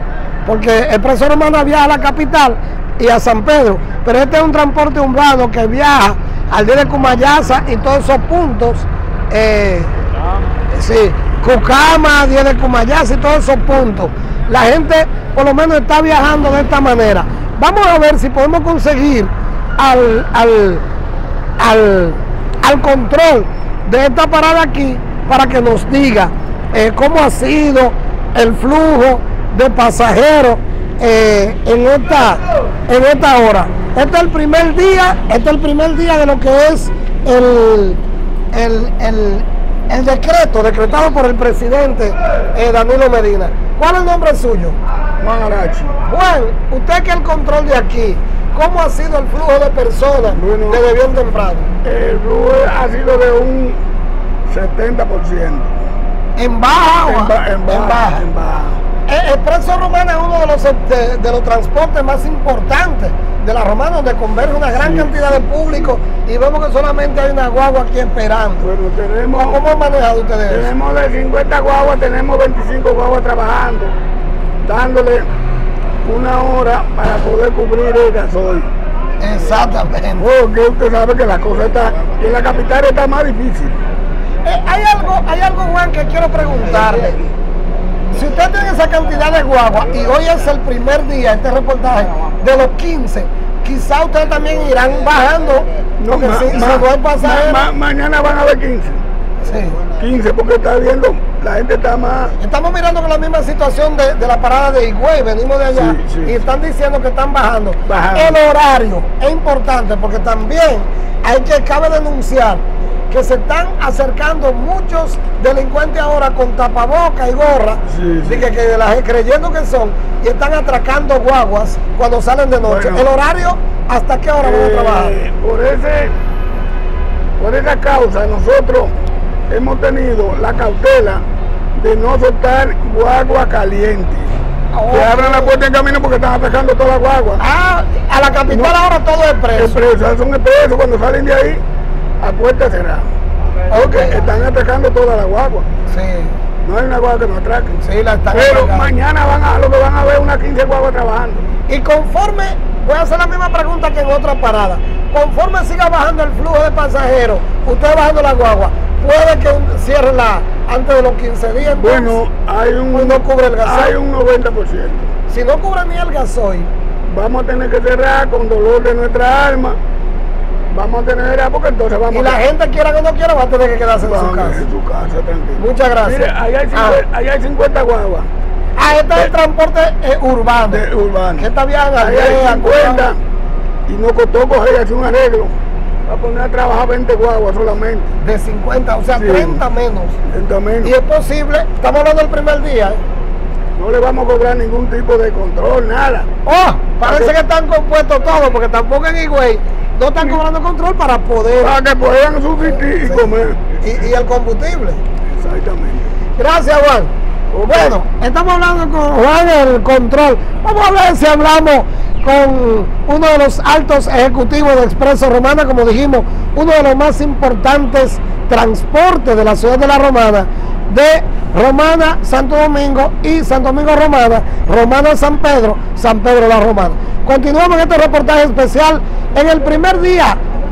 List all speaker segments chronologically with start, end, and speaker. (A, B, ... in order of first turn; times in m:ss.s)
0:00.5-0:09.9 A
0:10.7-0:20.8 A
0:21.6-0:38.0 A
0:38.5-0:44.8 A
0:45.2-0:45.9 B
0:46.1-0:51.7 A
0:50.3-0:50.8 B
0:51.8-0:53.8 B
0:54.5-0:55.9 B
0:56.4-0:58.2 A
0:57.0-0:58.8 B
0:59.1-1:08.6 A
1:04.7-1:05.9 B
1:08.6-1:09.6 B
1:09.3-1:10.7 A
1:10.5-1:13.9 B
1:14.6-1:15.3 B
1:16.0-1:18.7 B
1:19.2-1:20.2 A
1:20.2-1:23.8 B
1:24.4-1:27.2 A
1:28.1-1:37.7 A
1:36.0-1:39.0 B
1:39.4-1:39.8 A
1:40.0-1:42.4 B
1:42.4-2:05.2 A
1:45.7-1:46.4 B
1:47.9-1:48.4 B
1:57.9-1:58.5 B
2:02.6-2:03.1 B
2:04.4-2:06.2 B
2:07.4-2:08.9 B
2:09.5-2:11.2 B
2:11.8-2:14.4 B
2:14.7-2:15.6 A
2:14.9-2:17.4 B
2:17.4-2:19.8 A
2:18.5-2:18.8 B
2:19.6-2:21.6 B
2:22.2-2:23.1 B
2:23.7-2:24.2 A
2:23.7-2:25.7 B
2:25.9-2:26.4 A
2:26.6-2:31.4 B
2:27.8-2:28.9 A
2:31.7-2:42.2 A
2:41.8-2:45.1 B
2:42.9-2:44.0 A
2:45.3-2:46.7 A
2:47.1-2:49.8 B
2:50.7-2:52.4 B
2:52.1-2:54.6 A
2:54.0-2:58.3 B
2:55.6-2:57.0 A
2:58.8-3:00.8 A
3:00.7-3:03.2 B
3:01.4-3:03.1 A
3:03.9-3:05.5 B
3:06.1-3:08.1 B
3:08.2-3:10.2 A
3:09.2-3:09.6 B
3:10.3-3:10.9 B
3:10.8-3:13.0 A
3:13.8-3:16.3 B
3:16.4-3:21.7 A
3:17.0-3:17.3 B
3:21.6-3:23.7 B
3:23.8-3:25.0 A
3:25.3-3:26.1 B
3:26.4-3:27.1 A
3:27.5-3:28.0 B
3:27.7-3:50.4 A